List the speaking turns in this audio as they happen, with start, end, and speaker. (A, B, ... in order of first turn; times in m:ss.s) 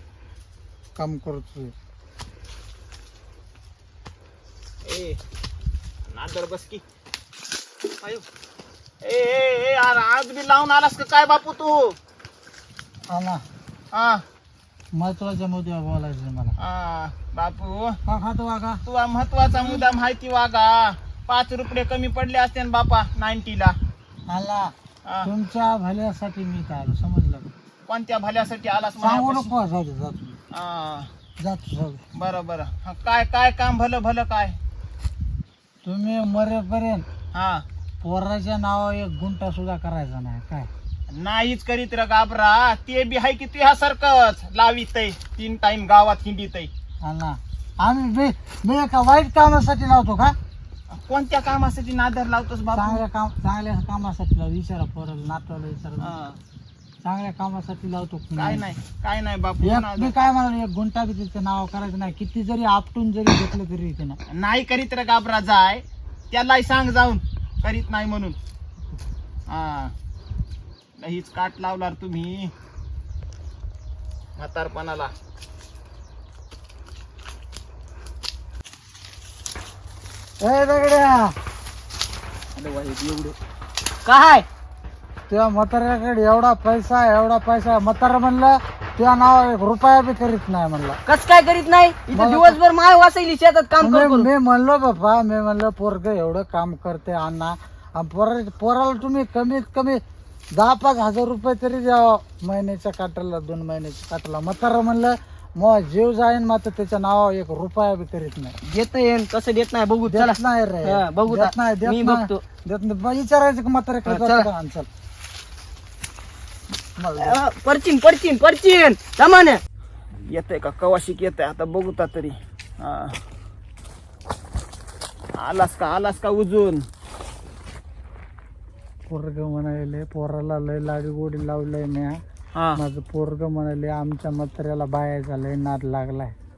0:01.0-0:01.7 A
0:04.8-0:05.2 B
0:06.1-0:06.8 B
0:09.0-0:12.0 B
0:13.1-0:13.4 A
0:13.9-0:14.2 B
0:14.9-0:16.6 A
0:16.6-0:18.0 B
0:18.1-0:18.8 A
0:18.8-0:23.8 B
0:24.3-0:24.7 A
0:25.0-0:25.3 B
0:25.2-0:27.5 A
0:27.9-0:29.5 B
0:29.0-0:30.4 A
0:30.5-0:31.1 B
0:31.4-0:32.0 A
0:32.1-0:34.6 B
0:35.8-0:37.1 A
0:37.3-0:37.6 B
0:38.0-0:40.7 A
0:41.1-0:46.7 B
0:47.0-0:50.4 A
0:50.9-0:53.0 B
0:52.7-0:56.1 A
0:56.0-0:56.4 B
0:57.0-0:58.6 A
0:58.4-1:00.1 B
0:59.6-1:04.2 A
1:04.3-1:08.4 B
1:09.5-1:09.9 B
1:11.0-1:12.5 B
1:14.4-1:15.1 B
1:20.4-1:21.4 A
1:22.6-1:23.4 C
1:24.1-1:24.5 C
1:25.3-1:31.0 A
1:31.1-1:34.3 C
1:32.1-1:32.6 A
1:33.8-1:40.0 A
1:40.5-1:48.6 A
1:48.6-1:52.4 C
1:50.1-1:54.9 A
1:54.1-1:54.5 C
1:57.0-1:57.4 A
1:57.2-1:59.6 C
2:00.3-2:03.2 B
2:05.4-2:06.8 B
2:09.1-2:12.2 A
2:12.6-2:12.8 B
2:12.8-2:16.3 A